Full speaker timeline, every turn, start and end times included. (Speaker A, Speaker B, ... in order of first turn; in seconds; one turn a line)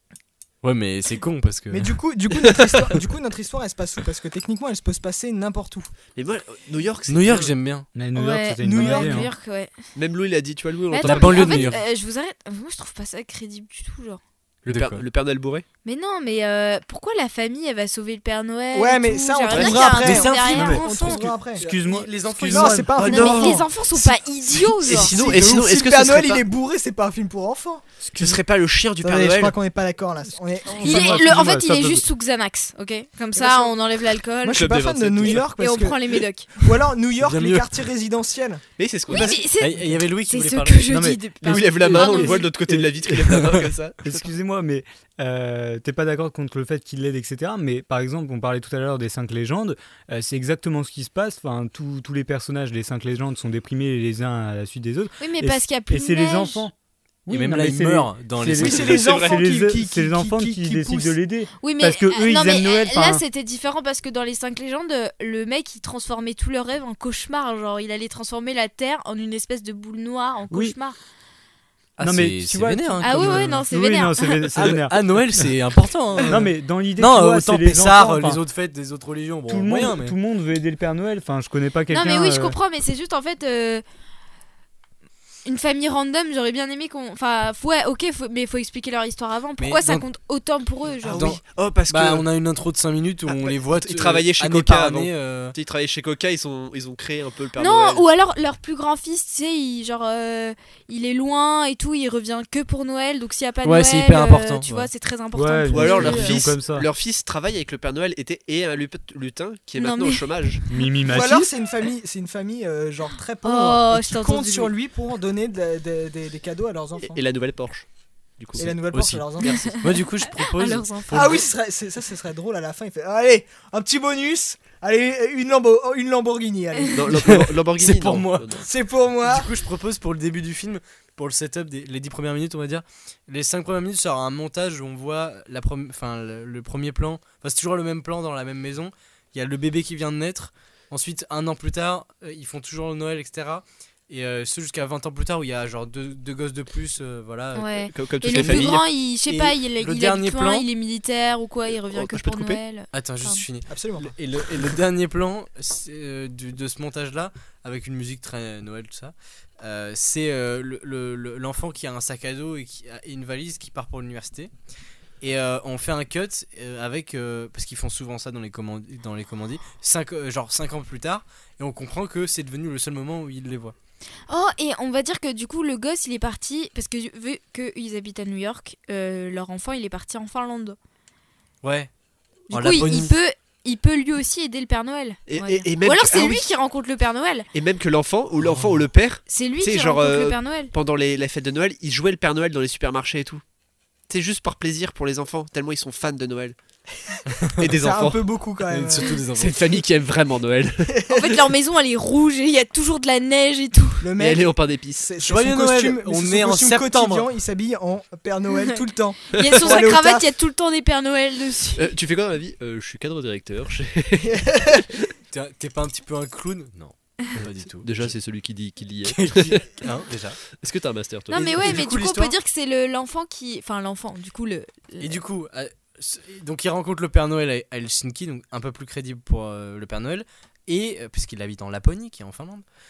Speaker A: 0.6-1.9
Speaker B: 1.7-6.0
Speaker C: 2.4-2.8
Speaker C: 6.2-7.5
Speaker A: 7.1-7.9
Speaker D: 7.9-9.3
Speaker E: 8.2-9.7
Speaker B: 8.6-9.3
Speaker C: 9.9-11.8
Speaker E: 10.9-14.2
Speaker A: 11.0-11.8
Speaker A: 14.7-15.0
Speaker C: 14.7-15.7
Speaker E: 15.8-21.2
Speaker B: 18.7-21.7
Speaker C: 19.5-19.8
Speaker A: 19.8-23.0
Speaker D: 21.6-22.9
Speaker B: 22.5-27.9
Speaker C: 23.0-23.7
Speaker E: 23.0-25.2
Speaker C: 24.8-26.4
Speaker C: 28.1-29.6
Speaker B: 29.0-31.4
Speaker D: 30.7-32.0
Speaker E: 30.8-36.5
Speaker B: 33.4-33.7
Speaker B: 34.4-39.9
Speaker C: 34.6-35.4
Speaker A: 37.2-37.7
Speaker C: 38.8-39.5
Speaker E: 39.1-42.5
Speaker A: 39.6-42.3
Speaker D: 40.9-42.0
Speaker C: 41.4-44.2
Speaker A: 42.8-43.7
Speaker D: 44.0-56.7
Speaker E: 55.2-56.7
Speaker D: 57.3-63.2
Speaker A: 57.3-59.0
Speaker B: 58.6-61.1
Speaker C: 58.9-59.4
Speaker E: 61.6-71.0
Speaker D: 70.5-70.8
Speaker A: 72.0-73.7
Speaker D: 72.0-75.5
Speaker E: 73.0-74.5
Speaker A: 74.6-80.2
Speaker D: 76.2-78.4
Speaker D: 79.5-82.6
Speaker E: 81.9-83.8
Speaker E: 85.5-91.3
Speaker A: 89.6-90.1
Speaker C: 91.0-92.3
Speaker A: 91.1-95.6
Speaker C: 93.3-98.0
Speaker E: 97.6-106.5
Speaker A: 103.6-104.9
Speaker D: 105.3-106.9
Speaker C: 105.7-110.7
Speaker E: 109.8-110.4
Speaker D: 110.7-111.5
Speaker B: 111.1-117.2
Speaker E: 113.4-114.7
Speaker C: 117.0-118.9
Speaker B: 118.6-119.7
Speaker A: 118.6-121.5
Speaker E: 119.4-121.4
Speaker B: 121.1-127.4
Speaker C: 126.9-128.6
Speaker A: 127.1-128.6
Speaker B: 128.6-129.5
Speaker A: 129.2-150.7
Speaker E: 147.6-153.4
Speaker C: 147.9-148.8
Speaker C: 151.9-152.6
Speaker A: 152.9-164.5
Speaker B: 153.7-154.2
Speaker A: 165.2-173.8
Speaker E: 174.3-180.8
Speaker A: 181.6-181.9
Speaker A: 182.5-183.2
Speaker E: 182.5-187.5
Speaker C: 185.3-186.5
Speaker C: 187.5-193.4
Speaker A: 188.5-188.8
Speaker E: 189.3-190.7
Speaker C: 194.1-196.6
Speaker C: 197.6-198.2
Speaker B: 197.8-199.2
Speaker A: 198.7-199.8
Speaker C: 199.4-201.0
Speaker E: 201.1-204.1
Speaker B: 204.0-210.3
Speaker C: 204.2-205.1
Speaker A: 205.2-207.3
Speaker E: 209.3-211.9
Speaker C: 209.3-209.8
Speaker C: 211.8-214.4
Speaker B: 214.3-214.8
Speaker A: 215.3-218.2
Speaker C: 217.3-219.8
Speaker A: 219.0-220.4
Speaker C: 220.5-221.8
Speaker A: 221.3-222.3
Speaker E: 221.3-225.2
Speaker A: 225.0-232.6